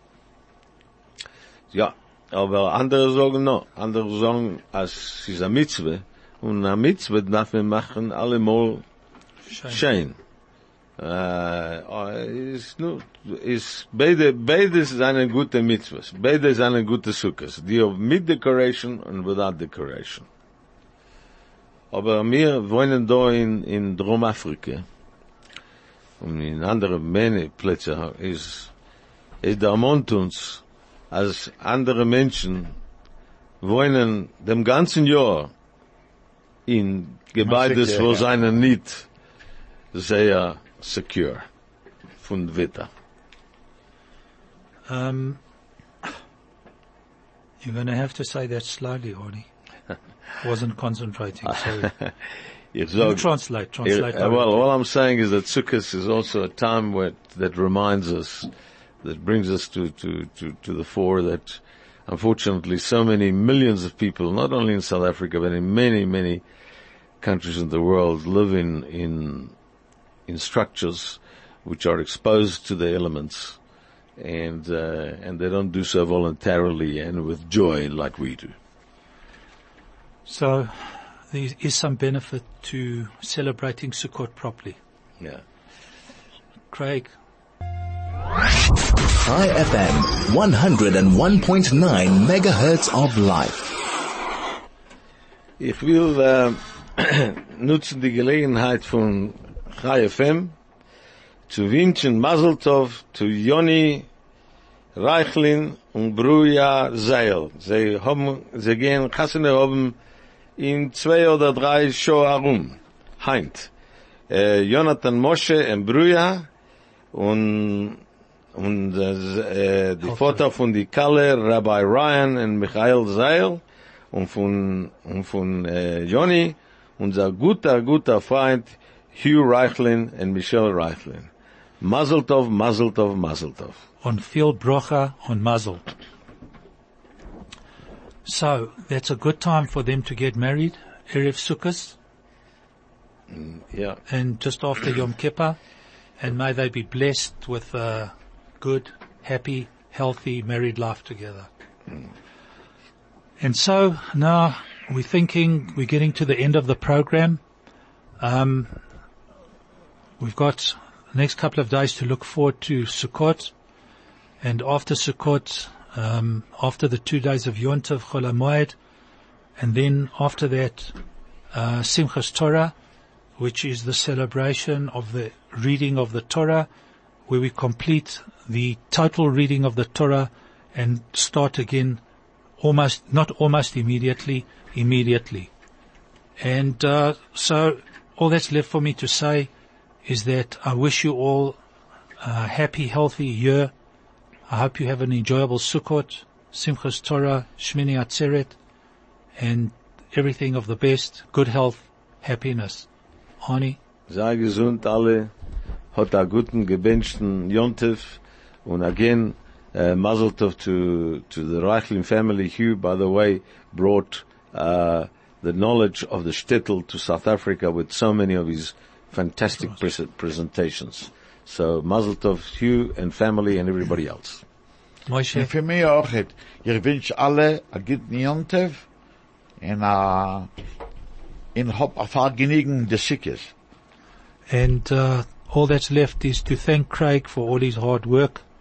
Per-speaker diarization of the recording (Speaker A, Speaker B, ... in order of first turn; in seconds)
Speaker A: 1.7-8.8, 9.7-10.2, 11.0-20.3, 21.9-24.9, 26.2-28.7, 29.4-32.7, 33.6-35.5, 36.7-39.1, 39.9-41.5, 42.2-42.9, 51.8-52.2, 52.7-53.3, 53.8-58.5, 59.0-66.4, 67.2-69.5, 70.3-73.6, 74.2-78.5, 95.6-100.6, 101.5-104.1, 105.0-110.0, 110.6-113.7, 114.3-116.5, 117.1-118.0, 118.5-131.3, 131.8-133.8, 143.3-144.0, 204.1-205.3, 205.9-224.4
Speaker B: 9.5-9.8, 44.9-45.4, 47.6-49.5, 50.4-51.9, 53.0-54.6, 80.3-84.8, 86.7-87.1, 120.0-120.4, 134.0-135.9, 138.2-142.0, 144.1-145.6, 146.2-151.5, 153.4-157.4, 158.2-158.8, 160.2-163.5, 164.4-168.8, 169.6-171.0, 171.5-172.7, 173.4-176.7, 177.3-182.0, 182.6-185.5, 186.4-189.5, 190.1-191.6, 192.2-193.7, 194.5-198.6, 199.4-202.9, 203.4-203.8, 225.1-225.5, 234.5-238.4
Speaker C: 37.4-38.3, 225.3-228.9, 229.6-230.5, 231.5-233.5
Speaker D: 89.2-93.8